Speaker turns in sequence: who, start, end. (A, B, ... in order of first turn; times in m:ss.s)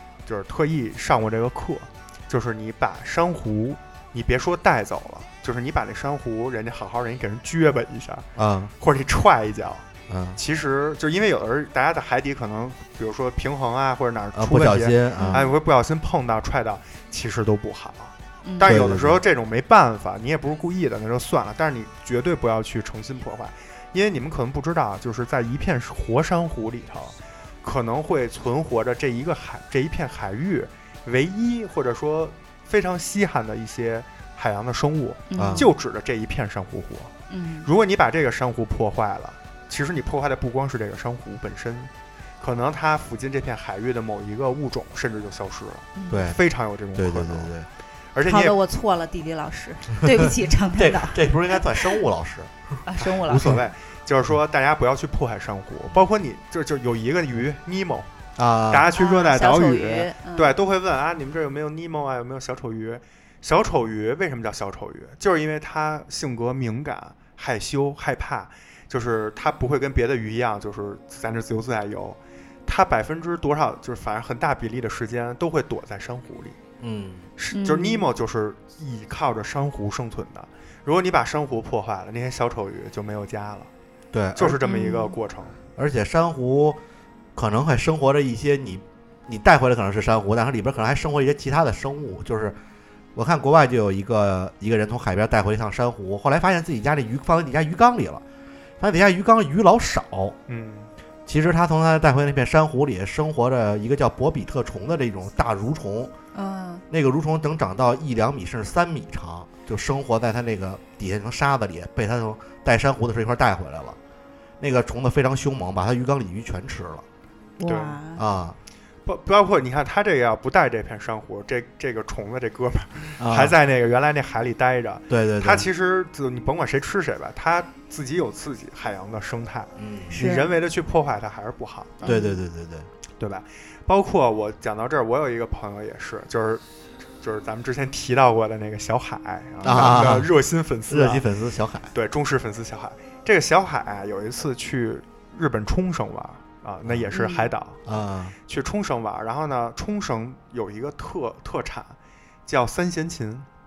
0:00.2-0:08.3 A
0:08.4-0:08.7 B
0:08.8-0:09.8 A
0:10.1-0:10.4 B
0:10.4-0:37.1 A
0:14.3-0:15.5 B
0:15.2-0:15.5 C
0:18.4-0:18.8 C
0:18.6-0:19.2 B
0:35.3-0:35.7 C
0:35.3-0:35.7 B
0:37.3-0:37.7 C
0:37.6-0:47.5 A
0:46.0-0:46.3 C
0:46.1-0:46.4 B
0:46.9-0:47.7 B
0:48.1-0:48.6 A
0:48.2-0:52.0 C
0:50.3-0:53.6 B
0:52.8-0:53.6 C
0:53.3-0:58.1 A
0:58.4-0:58.9 B
0:58.7-1:16.6 A
0:58.9-1:00.5 C
1:16.8-1:17.3 B
1:17.4-1:23.7 A
1:17.5-1:18.1 C
1:24.1-1:24.6 B
1:24.4-1:25.6 A
1:24.6-1:25.2 C
1:25.8-1:26.8 B
1:27.3-1:32.6 B
1:33.1-1:38.2 B
1:38.8-1:40.4 B
1:40.5-1:40.9 A
1:41.2-1:46.1 B
1:46.3-1:46.8 C
1:46.9-1:54.0 B
1:54.6-1:57.0 B
1:57.6-1:58.2 C
1:57.6-1:58.0 A
1:58.1-1:58.6 B
1:59.0-2:12.1 A
2:03.2-2:03.5 B
2:05.1-2:05.7 B
2:09.8-2:10.2 B
2:10.1-2:10.5 C
2:12.0-2:12.4 C
2:12.0-2:12.9 B
2:13.2-2:16.6 A
2:17.2-2:21.2 A
2:19.6-2:20.3 B
2:20.9-2:21.9 B
2:21.9-2:27.8 A
2:26.8-2:27.1 B
2:27.1-2:27.5 C
2:27.8-2:28.3 B
2:28.5-2:31.9 A
2:32.4-2:33.5 A